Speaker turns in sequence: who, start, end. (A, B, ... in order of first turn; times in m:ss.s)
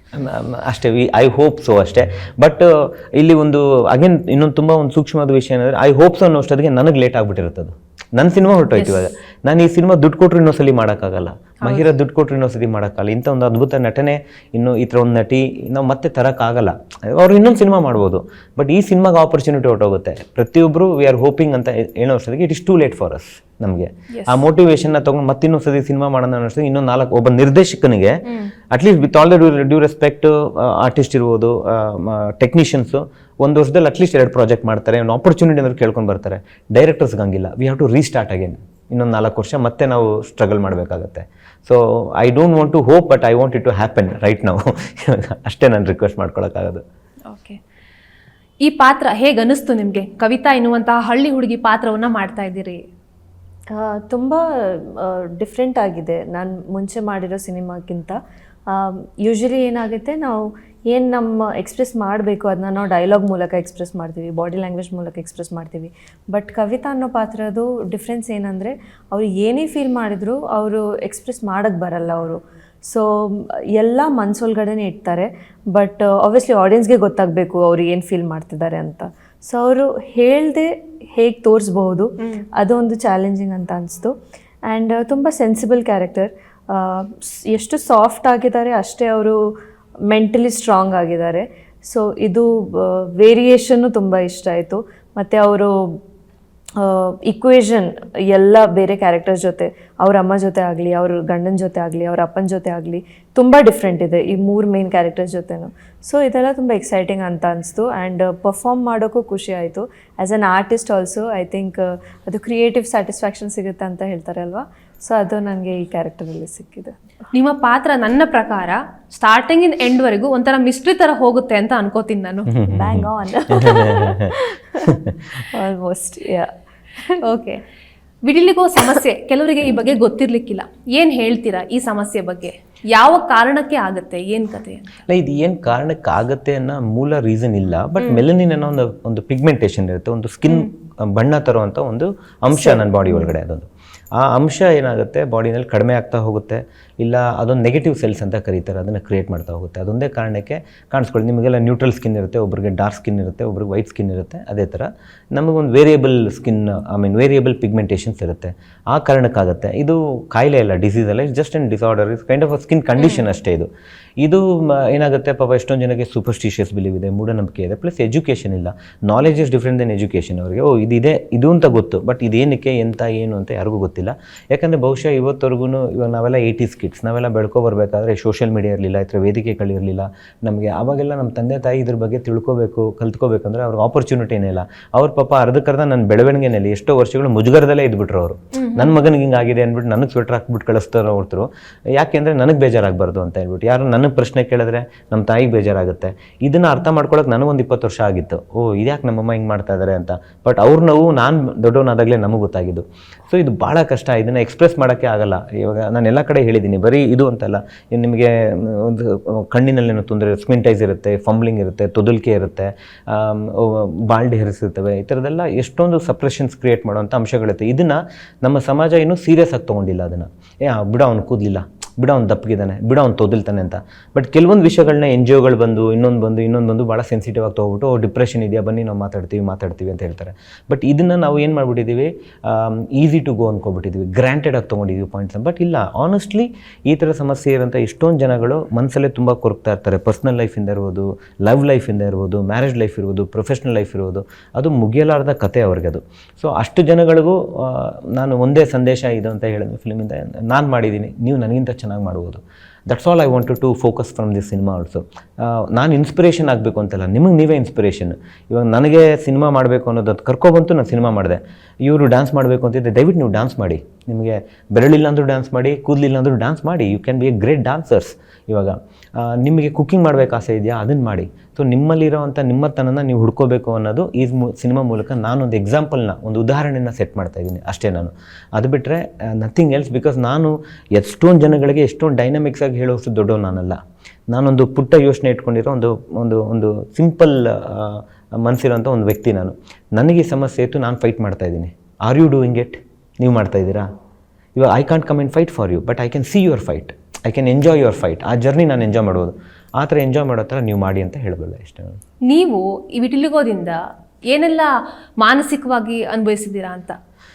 0:00.1-0:46.8 A
0:08.7-0:09.1 B
0:24.1-0:24.4 B
0:47.3-0:47.6 B
0:48.6-0:52.8 B
0:53.7-0:58.2 C
0:58.7-1:24.1 C
1:24.7-1:29.5 C
1:30.1-1:36.0 C
1:36.8-1:56.9 C
1:57.3-2:02.5 B
2:02.5-2:04.3 A
2:02.7-2:05.0 C
2:04.9-2:05.1 A
2:05.5-2:06.5 C
2:07.3-2:07.6 B
2:08.2-2:15.0 B
2:15.1-2:43.7 A
2:18.0-2:18.2 B
2:44.2-4:53.9 A
3:08.5-3:08.9 B
4:54.6-5:02.0 A
5:02.3-5:07.0 B